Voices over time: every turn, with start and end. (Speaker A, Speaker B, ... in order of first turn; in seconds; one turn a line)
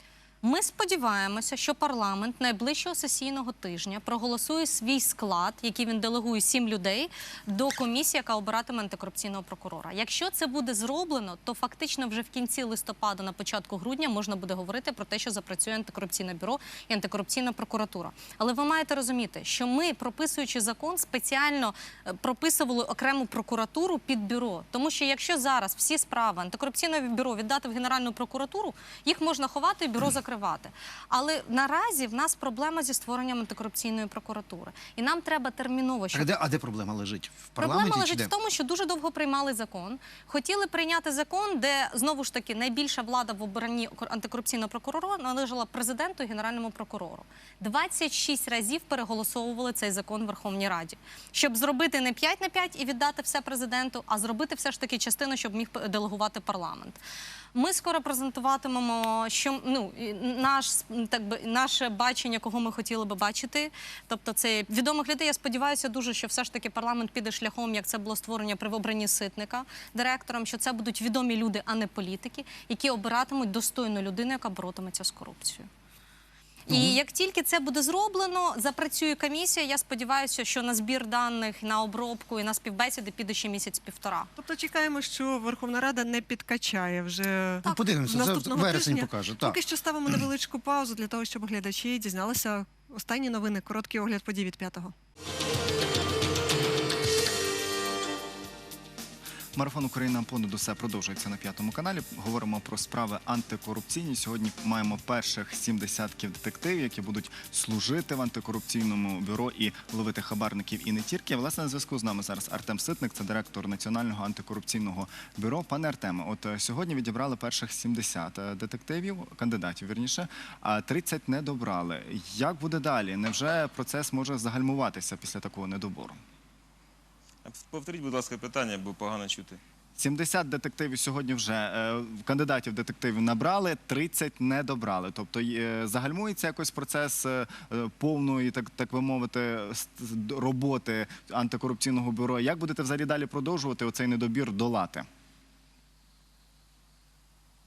Speaker A: 0.4-36.3
Speaker B: 36.1-38.3
Speaker A: 37.6-57.0
Speaker A: 57.5-75.7
Speaker A: 76.7-84.3
Speaker B: 76.7-77.0
Speaker C: 84.4-94.9
Speaker B: 87.6-89.6
Speaker D: 99.5-126.2
Speaker E: 127.4-129.6
Speaker D: 130.0-145.1